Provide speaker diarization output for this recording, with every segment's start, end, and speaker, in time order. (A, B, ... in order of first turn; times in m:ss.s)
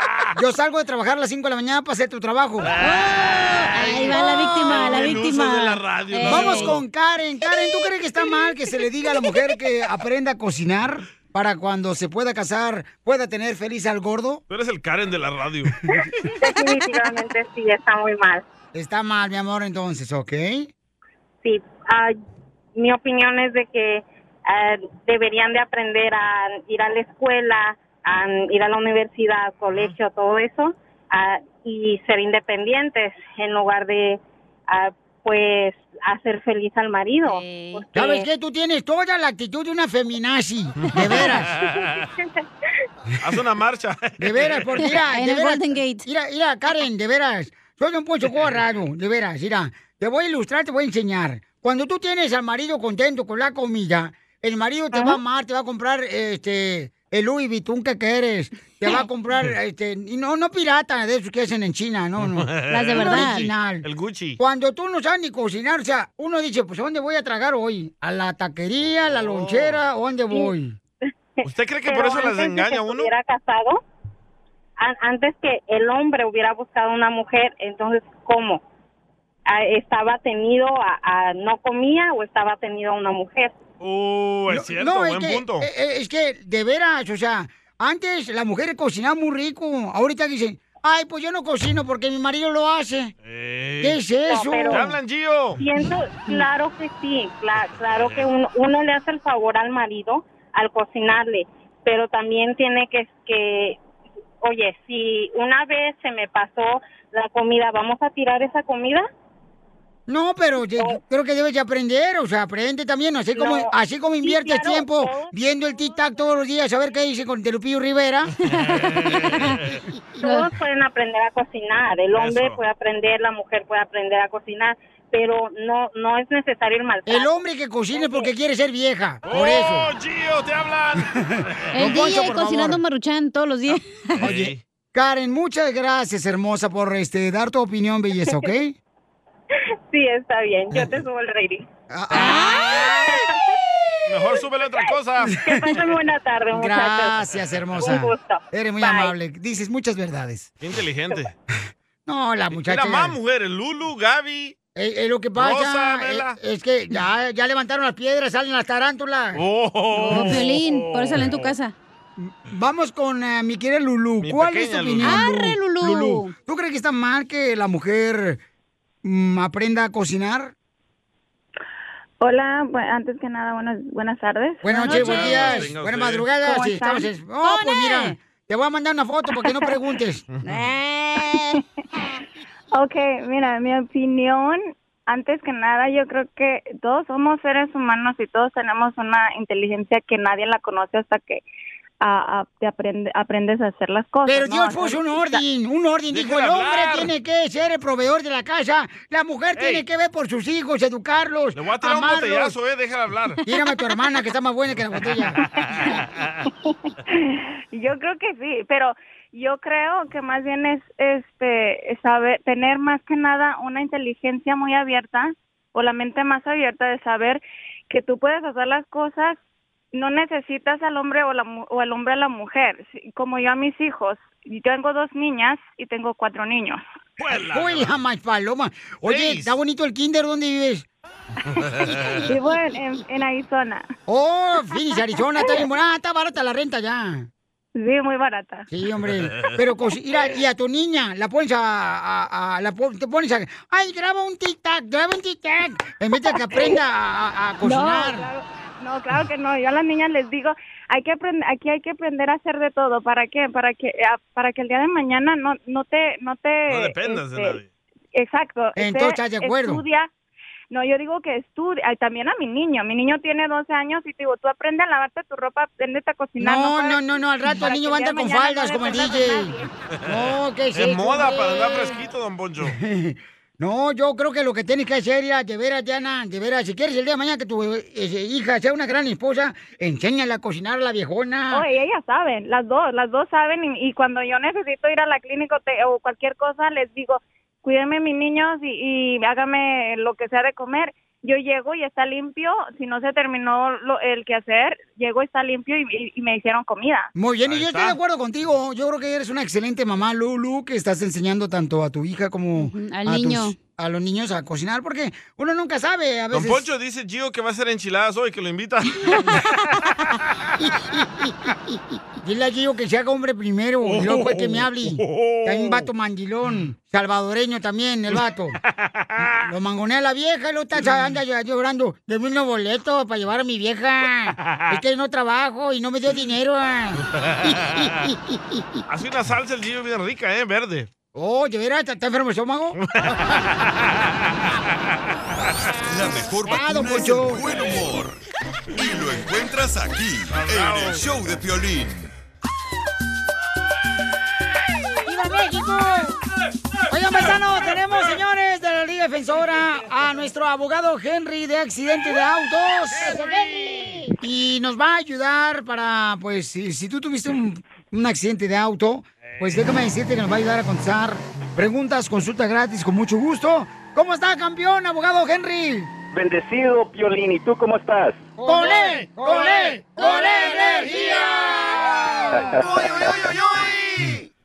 0:00.3-0:02.7 A
0:02.6-0:03.1 B
0:02.8-0:06.8 C
0:03.8-0:06.8 B
0:04.7-0:05.0 A
0:06.2-0:14.4 A
0:14.5-0:15.8 B
0:16.4-0:18.4 D
0:18.7-0:20.7 A
0:21.4-0:22.1 D
0:22.7-0:38.2 D
0:37.2-0:37.8 C
0:37.9-0:41.5 A
0:40.8-0:42.0 B
0:43.2-0:44.7 B
0:44.2-1:10.8 A
0:44.8-0:46.0 C
1:02.2-1:04.4 B
1:02.7-1:03.5 C
1:09.2-1:09.8 B
1:11.4-1:13.1 B
1:11.8-1:13.8 D
1:14.8-1:18.6 D
1:19.4-1:23.6 D
1:23.8-1:25.7 B
1:24.5-1:33.1 A
1:33.2-1:34.0 B
1:33.8-1:34.9 A
1:34.3-1:34.9 D
1:34.7-1:35.6 B
1:35.6-1:43.8 D
1:37.6-1:38.3 B
1:44.4-1:49.1 D
1:50.1-1:58.3 A
1:53.4-1:55.3 D
1:58.5-1:59.5 C
1:58.6-1:59.8 B
2:00.2-2:07.3 D
2:00.2-2:00.5 C
2:02.1-2:02.6 B
2:07.0-2:09.9 A
2:07.9-2:08.2 D
2:09.2-2:11.6 B
2:11.2-2:12.8 A
2:11.7-2:14.1 C
2:14.2-2:14.6 B
2:14.2-2:18.8 A
2:19.9-2:21.6 D
2:21.9-2:23.0 A
2:22.2-2:22.7 C
2:24.1-2:25.4 B
2:24.8-2:27.2 D
2:26.5-2:30.5 A
2:27.8-2:29.1 D
2:30.6-2:31.3 B
2:32.0-2:33.2 A
2:32.5-2:34.6 B
2:34.7-2:39.4 A
2:35.4-2:36.4 B
2:39.3-2:41.5 B
2:39.9-2:41.7 C
2:40.1-2:40.4 A
2:42.2-2:48.4 A
2:44.2-2:45.2 B
2:45.0-2:46.3 C
2:49.0-2:50.5 A
2:52.2-2:55.6 E
2:54.6-3:00.2 A
2:54.9-2:56.3 B
2:56.4-2:57.1 E
2:57.4-2:58.2 C
3:00.3-3:00.6 B
3:00.4-3:01.6 C
3:02.7-3:11.4 E
3:12.0-3:15.4 E
3:14.2-3:22.5 A
3:16.1-3:17.1 B
3:19.6-3:19.8 B
3:21.5-3:23.4 B
3:23.4-3:25.4 A
3:25.4-3:26.4 B
3:25.8-3:39.4 E
3:39.9-3:46.8 E
3:47.2-3:48.0 B
3:47.4-3:50.8 A
3:49.0-3:49.5 B
3:51.5-3:53.8 E
3:51.6-3:52.2 B
3:54.1-3:57.3 A
3:55.4-3:55.6 E
3:57.7-3:58.7 E
3:58.7-4:08.3 A
3:59.2-3:59.5 B
4:06.3-4:06.8 E
4:07.6-4:17.6 E
4:16.7-4:17.7 B
4:18.1-4:20.1 E
4:18.8-4:19.8 A
4:20.7-4:29.7 E
4:26.4-4:32.0 A
4:30.7-4:32.8 B
4:32.6-4:41.6 A
4:41.5-4:57.1 E
4:57.1-5:06.6 A
4:57.4-4:58.0 B
5:02.6-5:03.6 C
5:06.3-5:09.3 B
5:12.2-5:18.6 A
5:13.8-5:15.9 B
5:18.7-5:19.4 B
5:19.4-5:27.0 A
5:24.5-5:24.8 B
5:27.0-5:28.1 B
5:28.9-5:30.9 B
5:31.1-5:32.8 A
5:32.8-5:34.5 B
5:35.9-5:38.2 F
5:36.4-5:37.6 A
5:38.8-5:42.1 F
5:40.3-5:41.0 B
5:45.0-5:46.2 A
5:46.9-6:05.9 A
5:53.0-5:53.9 B
5:59.2-5:59.6 B
6:06.1-6:08.3 G
6:08.4-6:12.7 A
6:08.7-6:10.0 B
6:12.6-6:14.2 B